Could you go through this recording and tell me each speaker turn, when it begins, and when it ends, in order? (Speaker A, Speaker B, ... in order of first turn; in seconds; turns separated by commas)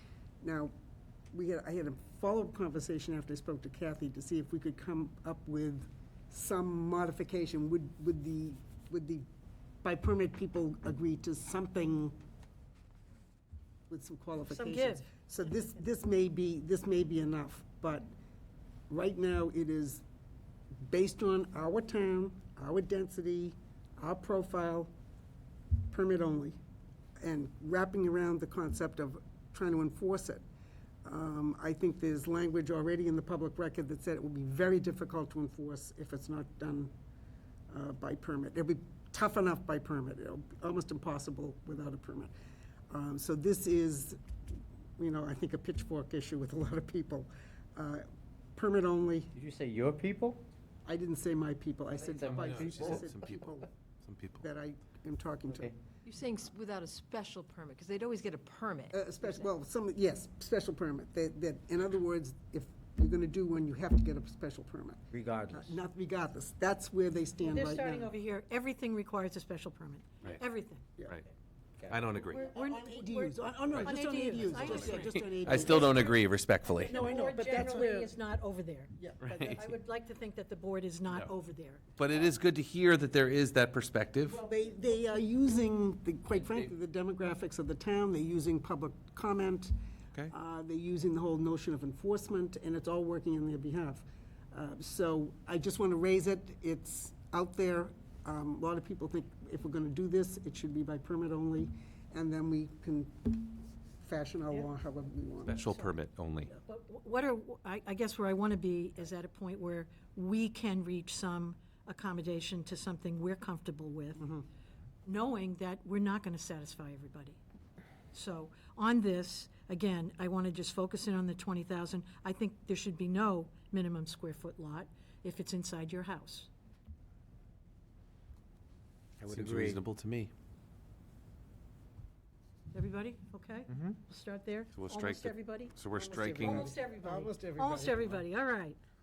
Speaker A: 0.4-0.7, Speaker A: 1.3-9.2, Speaker A: 9.8-12.2, Speaker A: 13.9-18.1, Speaker B: 14.5-15.1, Speaker A: 18.9-20.0, Speaker A: 20.9-24.9, Speaker A: 25.9-26.6, Speaker A: 27.2-30.4, Speaker A: 31.0-36.9, Speaker A: 37.7-42.3, Speaker A: 42.9-44.2, Speaker A: 45.0-49.3, Speaker C: 49.3-50.4, Speaker A: 50.9-53.7, Speaker C: 52.0-53.1, Speaker D: 52.3-54.4, Speaker A: 54.4-55.7, Speaker E: 56.0-59.5, Speaker A: 58.9-68.1, Speaker C: 65.1-65.8, Speaker B: 67.4-71.0, Speaker D: 71.9-72.6, Speaker A: 72.3-76.2, Speaker B: 72.6-75.8, Speaker D: 74.5-77.0, Speaker B: 76.8-81.8, Speaker A: 76.8-78.1, Speaker A: 79.0-79.5, Speaker D: 79.2-79.7, Speaker D: 81.0-81.3, Speaker D: 82.0-84.4, Speaker A: 84.2-89.7, Speaker A: 90.3-105.6, Speaker D: 105.4-106.5, Speaker B: 105.6-105.9, Speaker B: 106.5-114.3, Speaker A: 114.2-114.5, Speaker B: 115.0-117.4, Speaker B: 118.1-126.5, Speaker C: 129.2-129.8, Speaker D: 129.3-130.3, Speaker B: 132.7-138.8, Speaker C: 133.7-134.0, Speaker D: 134.7-136.8, Speaker A: 135.9-138.2